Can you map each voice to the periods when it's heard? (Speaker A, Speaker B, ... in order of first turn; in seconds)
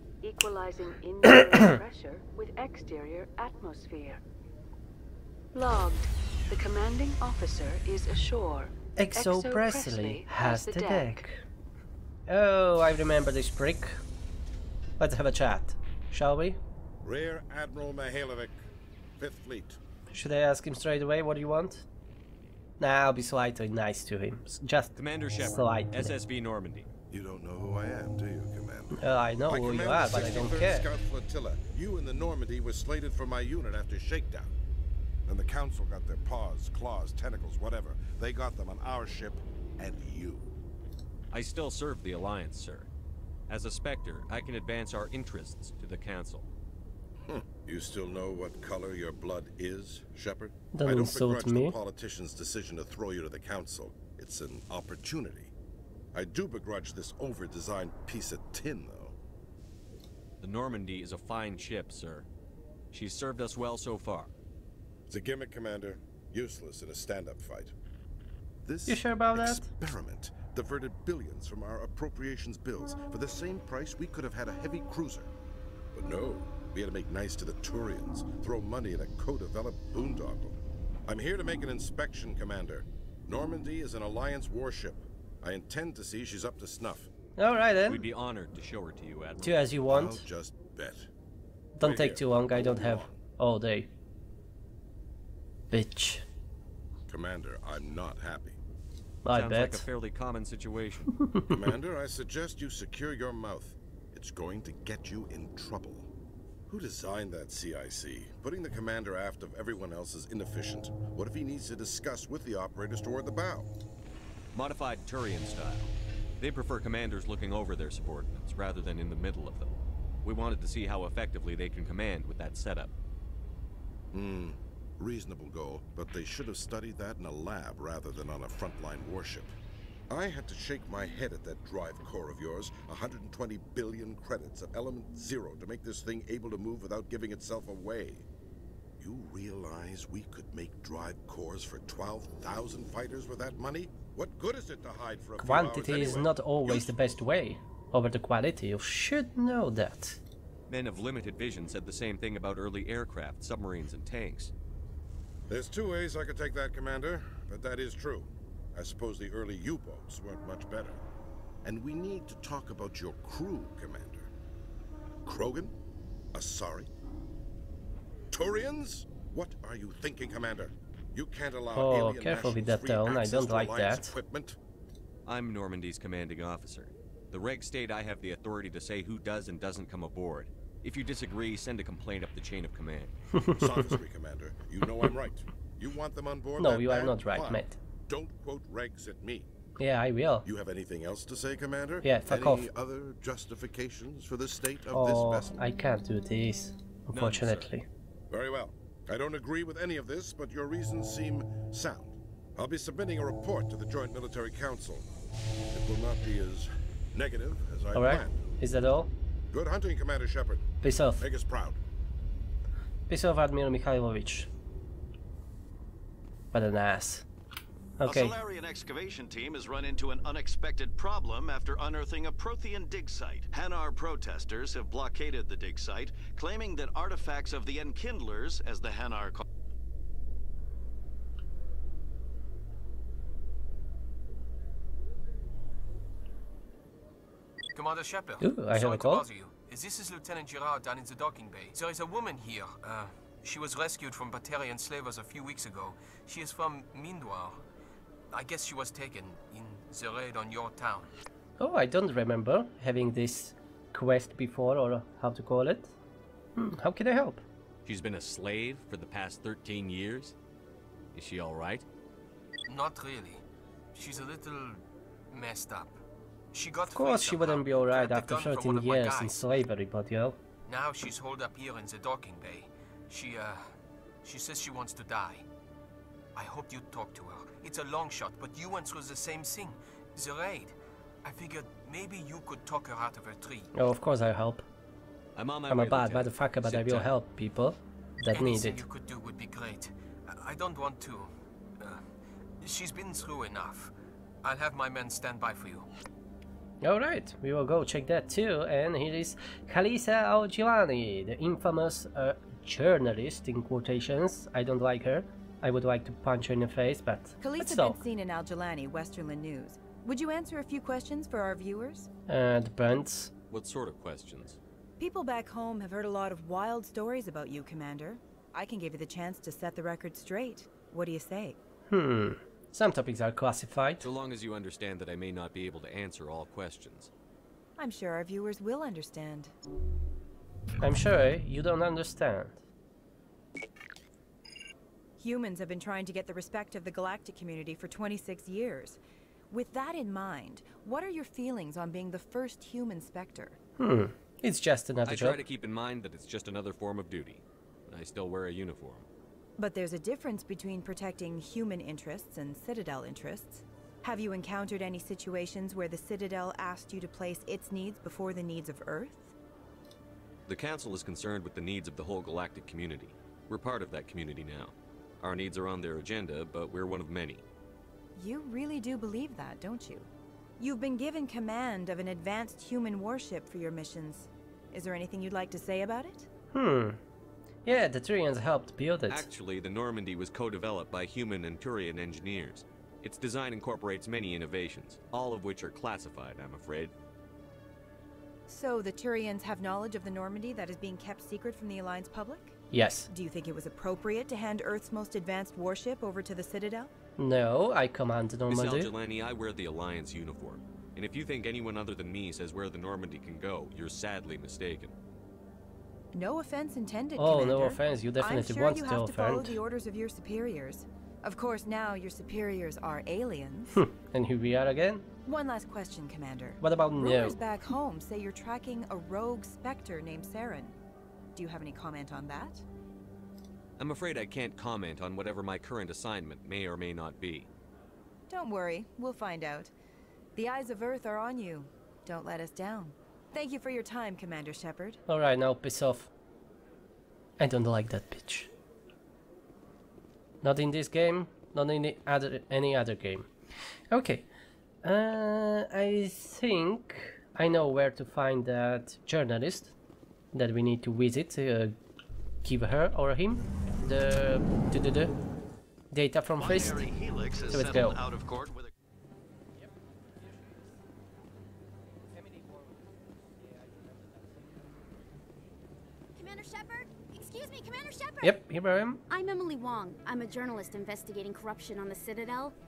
Speaker A: 0.2-4.2, 5.5-11.2
Speaker B: 8.9-11.4, 12.3-14.0, 15.0-16.6, 20.1-21.9, 22.8-26.1, 28.9-30.9, 50.7-51.7, 68.9-69.7, 87.4-88.0, 89.4-90.2, 91.8-93.9, 95.7-96.2, 99.2-99.8, 101.3-101.5, 145.4-150.2, 171.7-174.1, 183.3-184.0, 186.6-187.8, 189.8-190.4, 192.0-192.7, 194.9-197.8, 207.9-209.1, 210.8-211.2, 213.1-214.5, 216.5-217.2, 218.0-218.3, 238.4-239.2, 251.6-255.9, 256.6-257.4, 266.9-270.4, 283.7-284.6, 285.7-288.8, 296.8-308.0, 312.3-313.3, 321.9-324.1, 330.8-332.6, 343.8-345.4, 376.5-377.0, 377.6-379.3, 392.7-393.1, 397.2-398.9, 407.2-409.6, 413.7-415.0, 416.6-417.4, 435.1-436.1, 437.4-438.5, 440.4-443.3, 443.9-444.3, 444.8-449.7, 450.3-451.7, 452.4-455.1, 455.9-456.9, 457.5-458.0, 468.2-469.0
Speaker C: 17.0-18.6, 19.1-19.8, 27.1-34.5, 35.2-40.5, 47.2-55.5, 56.1-59.1, 65.1-67.7, 68.6-75.3, 75.9-87.1, 89.9-91.1, 91.8-93.2, 97.1-98.6, 101.5-106.1, 106.7-113.7, 124.1-129.6, 130.1-138.2, 139.0-147.2, 155.5-161.0, 161.6-164.3, 165.2-165.7, 166.3-166.9, 168.3-174.6, 183.6-189.5, 190.4-195.6, 198.3-205.1, 205.7-208.4, 209.5-211.8
Speaker D: 24.9-26.9, 41.3-42.9, 43.5-46.5, 60.4-62.3, 62.9-64.3, 87.9-89.7, 99.3-101.1, 114.5-122.9, 150.7-154.5, 175.2-183.1, 197.1-197.7, 257.8-260.4, 261.1-261.8, 285.3-287.1, 313.5-314.6, 324.0-327.1, 345.1-349.1, 360.5-367.4, 379.1-386.9, 398.5-404.9, 423.8-427.5
Speaker E: 218.0-229.4, 456.4-458.7
Speaker F: 237.7-247.6, 248.3-251.1, 262.7-263.4, 263.9-266.0, 266.5-269.3, 270.7-275.4, 276.3-283.7, 288.3-292.1, 292.6-295.9
Speaker G: 307.4-312.1, 315.0-321.6, 327.8-329.5, 335.2-343.6, 349.6-359.3, 368.1-376.3, 388.5-392.6, 393.1-396.9, 406.1-413.7, 415.2-420.8, 421.3-422.6, 428.3-429.7, 430.3-435.0
Speaker H: 466.1-468.4, 469.1-472.5